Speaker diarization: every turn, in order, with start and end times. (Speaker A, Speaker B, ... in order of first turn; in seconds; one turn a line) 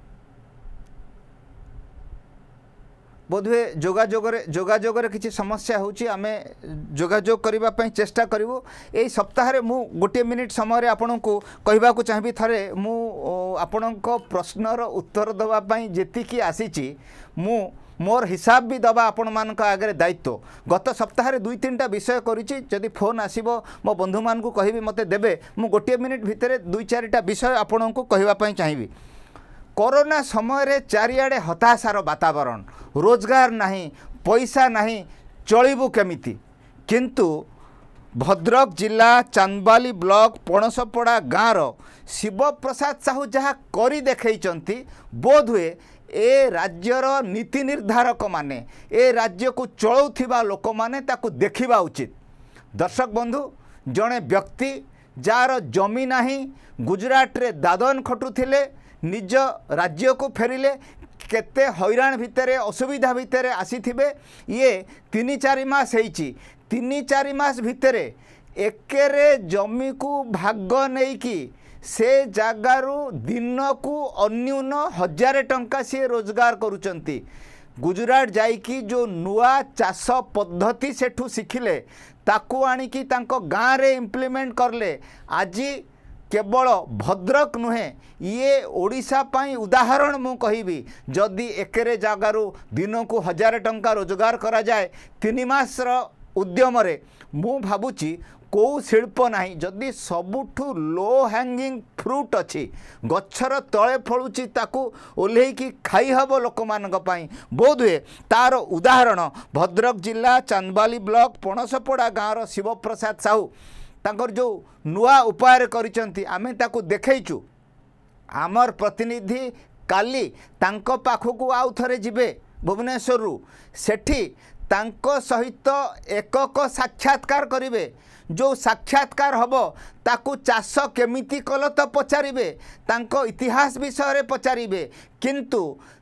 Speaker A: 3.3-28.9
Speaker A: 29.8-37.5
Speaker A: 38.1-52.1
Speaker A: 52.7-77.2
Speaker A: 77.8-113.5
Speaker A: 114.0-117.4
Speaker A: 118.3-135.8